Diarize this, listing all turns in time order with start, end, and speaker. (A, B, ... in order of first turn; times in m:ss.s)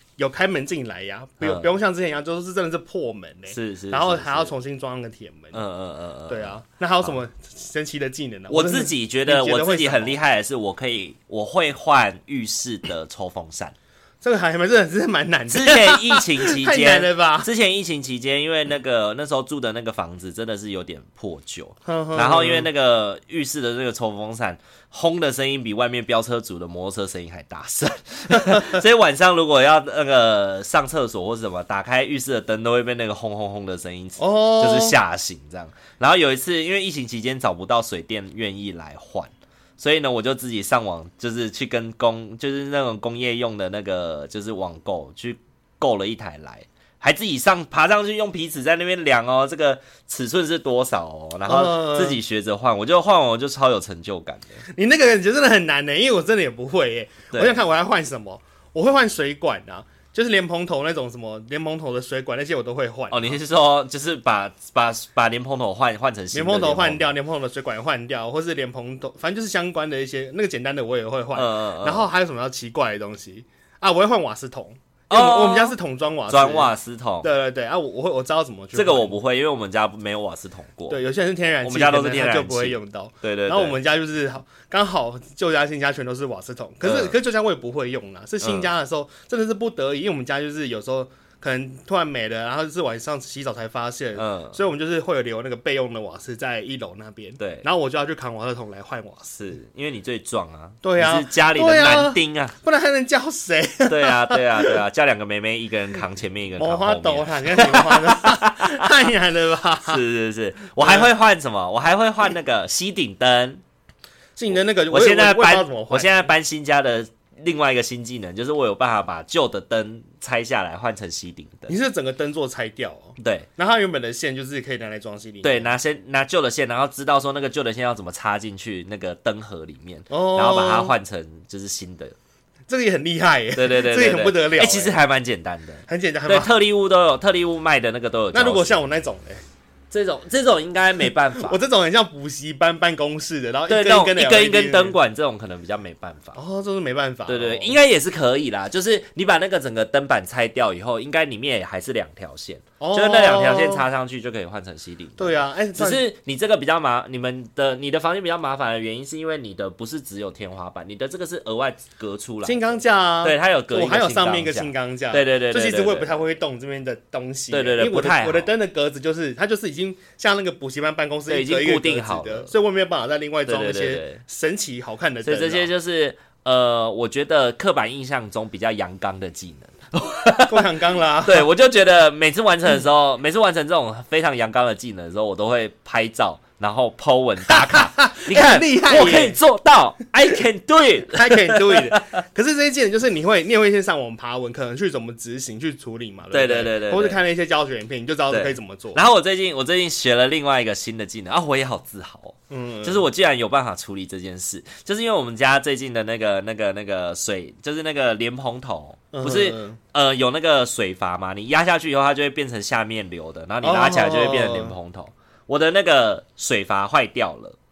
0:00.2-0:05.6 A
0:01.4-0:01.7 B
0:03.5-0:04.5 B
0:05.5-0:07.2 B
0:06.3-0:10.2 A
0:08.5-0:13.7 B
0:14.2-0:17.5 A
0:15.5-0:54.6 B
0:21.8-0:22.7 A
0:34.2-0:35.0 A
0:51.5-0:52.2 A
0:54.7-1:03.4 A
0:57.3-0:57.6 B
1:03.1-1:07.2 B
1:06.3-1:16.7 A
1:11.3-1:12.1 B
1:15.1-1:15.7 B
1:16.3-1:17.3 B
1:17.2-1:19.1 A
1:18.7-1:21.0 B
1:20.9-1:39.4 A
1:21.6-1:23.8 B
1:26.8-1:27.1 B
1:28.4-1:28.7 B
1:34.2-1:34.6 B
1:37.4-1:37.6 B
1:39.3-1:42.5 B
1:40.8-1:44.8 A
1:43.9-1:48.9 B
1:46.6-1:50.0 A
1:49.8-1:53.6 B
1:50.8-1:51.1 A
1:54.4-1:56.3 A
1:54.9-2:01.7 B
2:01.7-2:05.7 A
2:03.2-2:03.5 B
2:05.4-2:12.2 B
2:10.1-2:11.0 A
2:12.7-2:15.0 A
2:13.5-2:18.8 B
2:15.9-2:16.5 A
2:18.3-2:19.4 A
2:19.9-2:21.6 B
2:21.3-2:25.0 A
2:23.7-2:26.4 B
2:26.4-2:27.7 A
2:27.3-2:46.2 B
2:32.8-2:33.8 A
2:35.2-2:36.0 A
2:42.4-2:55.7 A
2:47.5-2:48.5 B
2:51.3-2:52.5 B
2:53.5-2:54.2 B
2:55.2-3:00.7 B
3:00.5-3:01.5 A
3:01.2-3:12.2 B
3:07.5-3:09.4 A
3:11.1-3:19.0 A
3:16.3-3:17.2 B
3:18.3-3:37.6 B
3:22.5-3:23.0 A
3:29.1-3:29.8 A
3:33.6-3:34.7 A